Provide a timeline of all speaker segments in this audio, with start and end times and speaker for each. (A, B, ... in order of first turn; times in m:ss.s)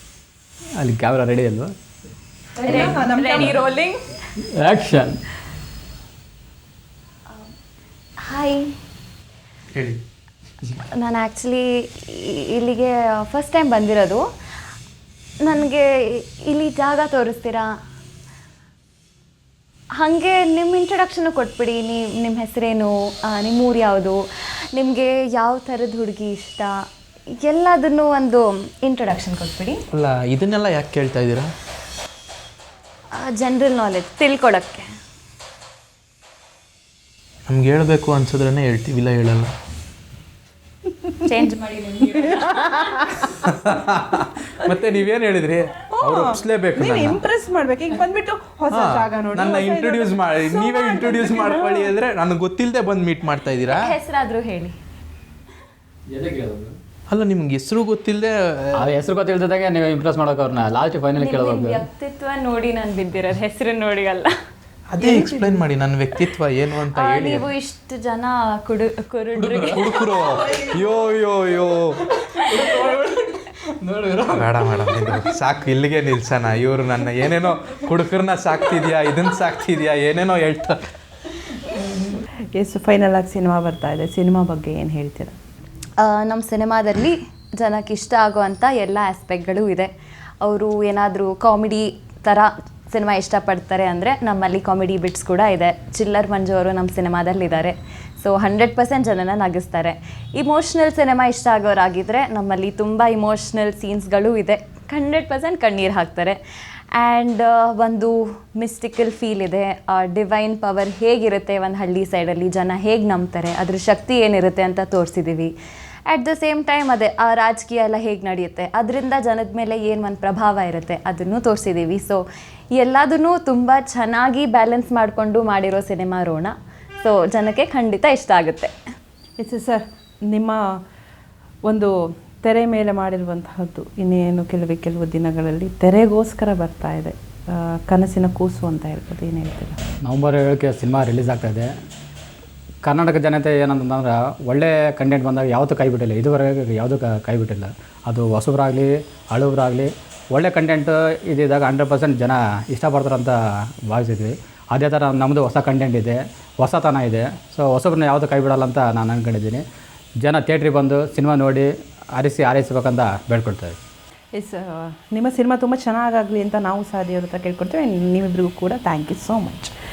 0:00.8-0:01.7 A
0:02.6-0:03.6 B
0:02.6-0:04.0 C
0:02.7-0:03.0 A
0:04.4-0:05.2 A
0:08.2-0:08.6 C
0:09.7-0:10.0 D
0:10.9-0:14.2 C
0:15.4-0:17.7 C
0:20.0-0:24.2 C
0:24.7-0:26.8 C
0:27.4-0:29.8 C
0:29.9-0:31.5 D
0:33.1-0:34.8 C
0:37.5-0:39.5 D
0:41.2-0:42.9 C
0:42.1-0:43.3 B
0:43.3-0:47.2 D
0:45.9-0:51.9 B
0:48.7-0:53.9 D
0:53.7-0:54.8 C
0:56.1-0:56.7 A
0:57.1-0:58.8 D
0:58.8-1:01.8 A
1:01.2-1:04.3 C
1:04.9-1:07.5 D
1:05.0-1:05.6 B
1:06.9-1:10.2 C
1:09.4-1:12.0 D
1:12.1-1:15.2 A
1:14.3-1:20.8 D
1:21.8-1:25.4 B
1:26.0-1:29.9 C
1:30.4-1:46.4 C
1:46.9-1:55.5 C
1:56.1-2:02.2 C
2:02.8-2:08.7 C
2:09.4-2:10.6 B
2:11.6-2:19.8 B
2:20.0-2:21.7 A
2:22.8-2:33.4 A
2:33.9-2:39.6 A
2:40.2-2:43.8 A
2:44.3-2:49.7 B